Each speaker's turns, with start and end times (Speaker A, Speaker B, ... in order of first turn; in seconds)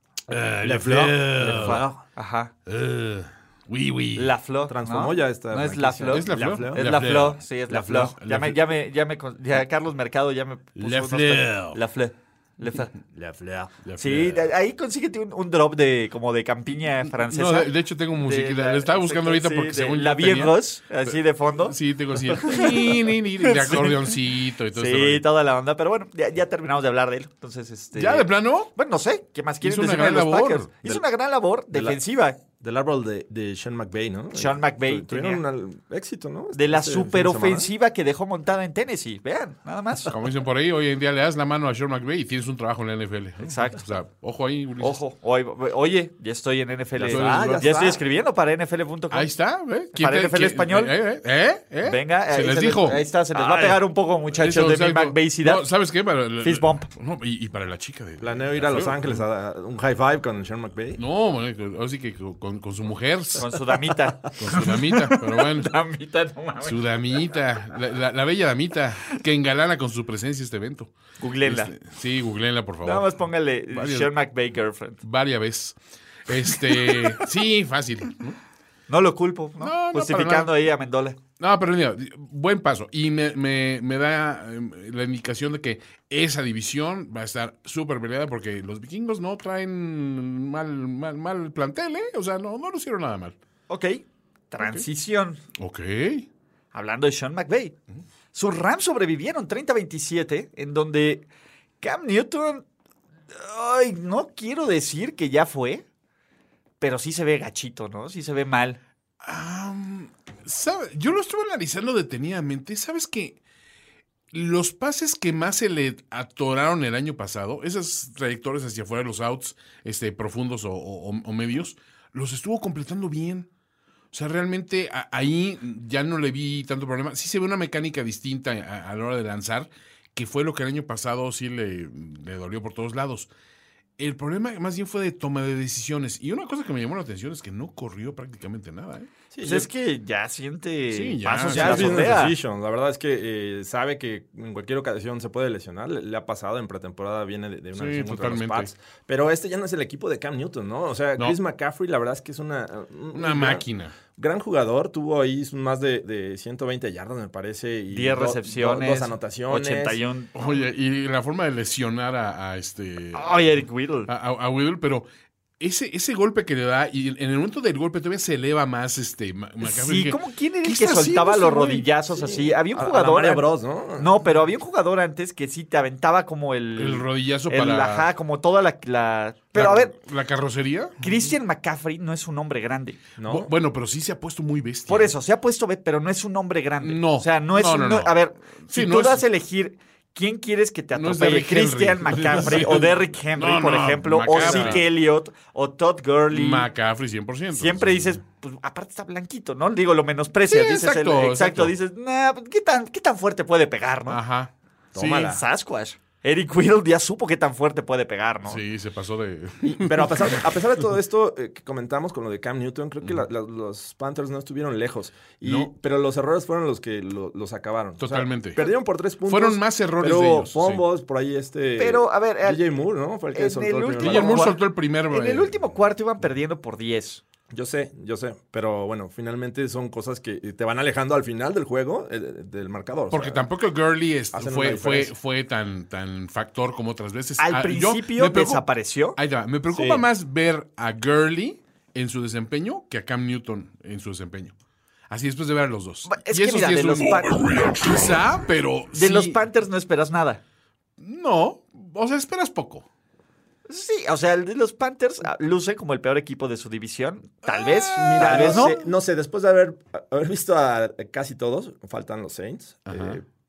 Speaker A: 0.3-1.9, 2.7-4.3, 6.1-8.6, 10.8-11.8, 13.8-14.5, 17.2-25.2, 27.9-28.7, 29.6-30.7, 40.0-45.0, 47.0-47.7, 49.1-53.0, 54.3-59.2, 61.0-63.5, 64.4-65.7, 66.6-73.1, 73.7-74.1, 75.0-78.4, 79.6-80.5, 81.4-93.4, 94.6-94.9, 95.6-96.3, 109.2-113.4, 114.3-123.5, 124.1-133.3, 134.0-139.1, 140.9-142.1, 147.8-148.7, 153.1-153.9, 160.3-163.5, 164.1-165.1, 165.6-171.9, 176.8-178.1, 179.6-181.1, 183.2-185.1, 186.8-189.2, 190.9-194.8, 196.3-198.2, 200.5-201.7, 204.1-205.2, 208.4-210.5, 215.4-215.7, 218.0-218.6, 219.3-220.8, 224.0-225.5, 233.1-244.5, 245.1-249.4, 251.0-252.9, 257.5-258.8, 262.9-263.2
Speaker B: 0.6-2.0, 4.7-6.8, 7.7-8.1, 13.1-13.8, 31.7-32.0, 32.6-37.7, 47.0-48.0, 53.3-53.8, 58.2-61.0, 139.3-139.7, 141.5-160.0, 172.1-174.1, 183.2-183.5, 194.4-194.8, 204.9-205.4, 209.6-224.5, 227.5-233.4, 234.3-235.1, 239.7-240.1, 258.0-263.2
Speaker C: 1.4-2.5, 4.2-12.9, 14.0-24.2, 24.7-32.4, 34.3-35.4, 36.5-40.1, 43.4-43.9, 44.8-49.3, 49.9-50.9, 51.8-55.7, 56.4-56.9, 63.4-67.4, 71.2-71.7, 72.8-75.0, 76.6-77.2, 78.9-81.2, 93.7-95.4, 96.7-97.8, 98.3-101.3, 101.8-102.7, 103.3-105.8, 106.8-108.8, 139.4-142.4, 157.9-160.3, 163.1-164.1, 169.6-179.9, 181.0-183.0, 184.9-196.7, 197.5-204.2, 205.0-208.6, 221.8-222.7, 223.3-227.2, 237.4-239.2, 246.1-247.4, 248.9-250.4, 253.7-258.8